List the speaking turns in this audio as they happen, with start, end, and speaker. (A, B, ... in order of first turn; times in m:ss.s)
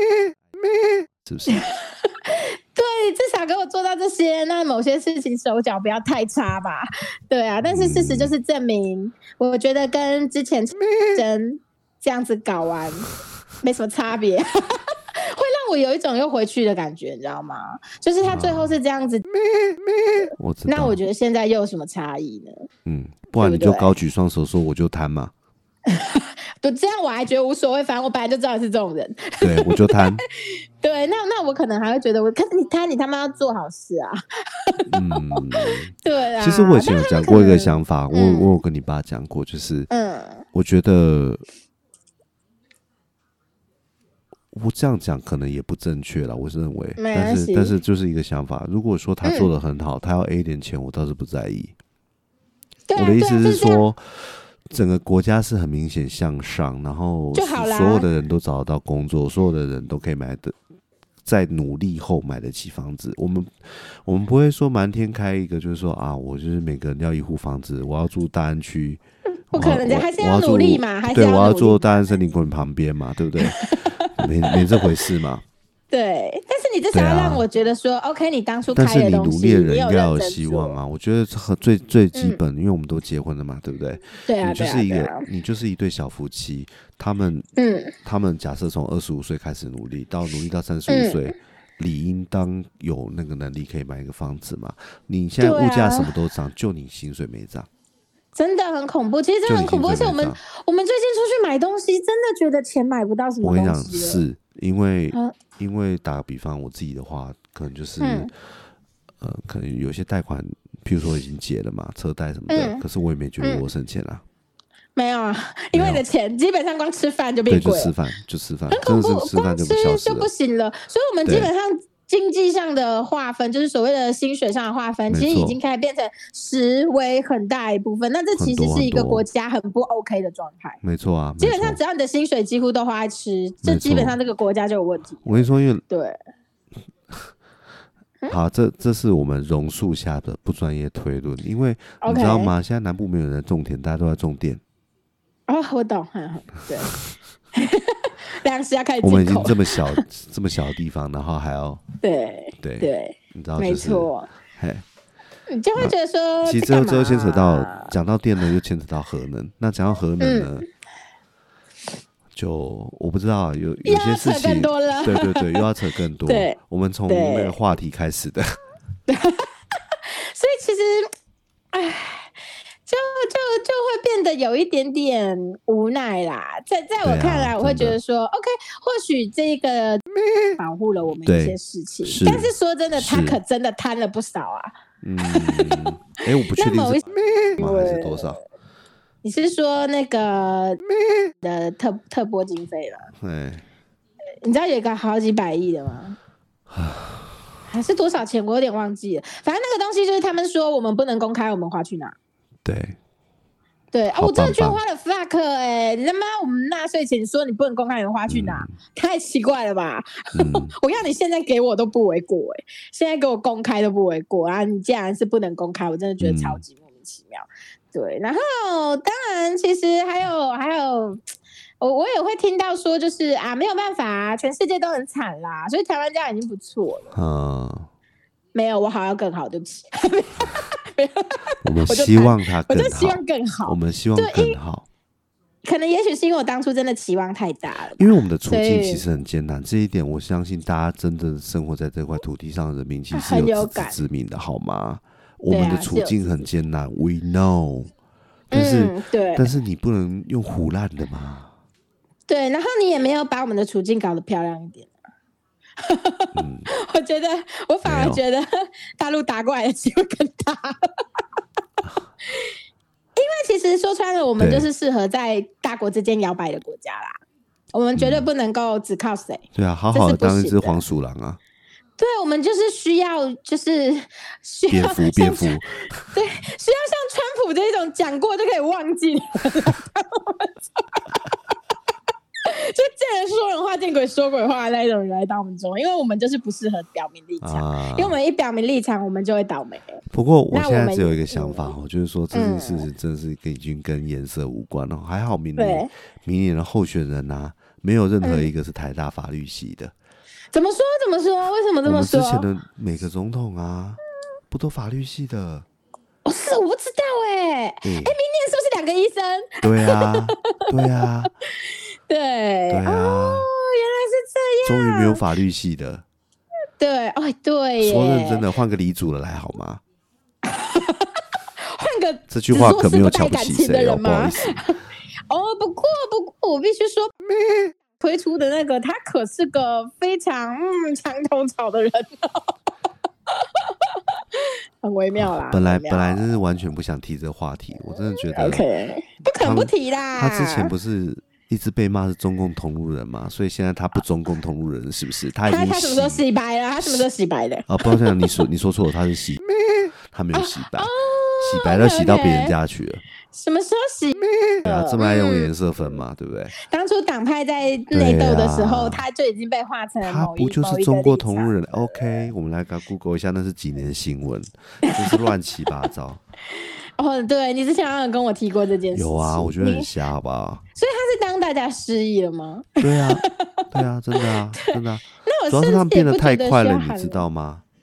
0:01.2-0:01.6 A
0:01.5-0:13.1 B
0:07.6-0:08.3 A
0:13.6-0:22.7 B
0:18.2-0:18.7 A
0:20.4-0:21.0 A
0:22.8-0:25.3 A
0:23.4-0:23.9 B
0:25.8-0:38.6 B
0:29.4-0:30.2 A
0:34.9-0:39.9 A
0:39.9-0:40.4 B
0:40.5-0:41.4 A
0:44.5-0:51.7 A
0:47.0-0:47.7 B
0:49.2-0:49.5 B
0:52.9-0:53.8 B
0:52.9-1:00.5 A
0:57.3-0:58.1 B
1:01.2-1:09.0 A
1:09.5-1:11.9 B
1:09.5-1:15.4 A
1:13.4-1:15.0 B
1:15.9-1:20.8 B
1:16.9-1:17.4 A
1:18.7-1:27.5 A
1:22.1-1:22.4 B
1:24.3-1:25.2 B
1:27.6-1:27.9 B
1:28.0-1:37.7 A
1:30.9-1:31.3 B
1:35.4-1:36.1 B
1:38.3-1:44.2 B
1:39.4-1:40.4 A
1:43.4-1:48.3 A
1:48.0-1:48.3 B
1:49.2-1:54.2 A
1:52.5-1:52.8 B
1:53.4-1:53.7 B
1:55.0-1:57.9 B
1:55.7-1:56.0 A
1:57.5-2:00.3 A
1:58.7-2:10.8 B
2:01.2-2:01.5 A
2:05.1-2:05.6 A
2:08.4-2:09.2 A
2:10.8-2:11.8 A
2:11.4-2:16.2 B
2:13.6-2:14.2 A
2:15.2-2:15.8 A
2:18.3-2:24.6 A
2:22.0-2:22.5 B
2:25.5-2:26.9 B
2:27.5-2:30.0 B
2:29.0-2:31.8 A
2:32.0-2:34.3 B
2:32.6-2:34.8 A
2:35.5-2:37.9 B
2:35.8-2:40.6 A
2:40.2-2:40.6 B
2:42.3-2:48.6 A
2:43.8-2:45.7 B
2:46.3-2:46.6 B
2:47.1-2:47.6 B
2:49.1-2:51.1 B
2:51.7-3:04.7 B
2:57.0-2:58.0 A
3:01.2-3:03.4 A
3:05.0-3:07.0 A
3:05.3-3:05.9 B
3:06.5-3:08.4 B
3:07.6-3:08.4 A
3:09.2-3:13.1 B
3:13.2-3:13.6 A
3:14.4-3:16.2 B
3:16.7-3:17.4 A
3:17.7-3:22.1 B
3:22.6-3:23.0 A
3:23.9-3:41.2 B
3:24.1-3:24.8 A
3:28.3-3:28.7 A
3:30.3-3:30.7 A
3:36.2-3:36.6 A
3:41.8-3:47.1 B
3:47.1-3:47.9 A
3:48.5-3:54.6 B
3:51.6-3:54.9 A
3:55.6-3:59.0 B
3:58.0-4:07.9 A
4:03.1-4:04.0 B
4:05.5-4:06.4 B
4:08.5-4:09.5 B
4:08.5-4:11.5 A
4:12.3-4:14.9 B
4:15.8-4:21.4 B
4:16.3-4:16.7 A
4:17.8-4:18.2 A
4:22.3-4:22.5 B
4:23.2-4:27.2 B
4:24.4-4:24.7 A
4:27.7-4:30.8 B
4:28.0-4:28.3 A
4:29.5-4:31.4 A
4:32.0-4:35.6 B
4:34.7-4:36.1 A
4:36.1-4:41.2 B
4:42.4-4:50.0 B
4:47.4-4:48.2 A
4:50.1-4:59.9 A
4:50.5-4:51.7 B
4:52.3-4:52.9 B
4:55.6-4:55.9 B
4:58.2-4:58.5 B
5:00.5-5:02.5 B
5:01.8-5:05.6 A
5:06.2-5:15.2 B
5:07.8-5:08.1 A
5:09.6-5:11.3 A
5:12.7-5:13.5 A
5:14.6-5:16.0 A
5:16.8-5:18.4 B
5:17.8-5:19.8 A
5:20.4-5:24.8 B
5:22.3-5:24.6 A
5:25.3-5:27.1 B
5:27.9-5:32.5 B
5:33.3-5:36.2 B
5:35.2-5:38.6 A
5:37.9-5:40.7 B
5:39.2-5:46.2 A
5:45.5-5:48.3 B
5:47.7-5:49.4 A
5:50.1-5:53.0 A
5:50.3-5:52.5 B
5:53.3-5:56.0 B
5:54.6-5:56.6 A
5:56.6-6:02.3 B
5:57.9-5:59.0 A
6:00.0-6:06.2 A
6:04.9-6:05.2 B
6:06.5-6:09.9 B
6:08.9-6:10.6 A
6:10.7-6:17.2 B
6:12.8-6:17.6 A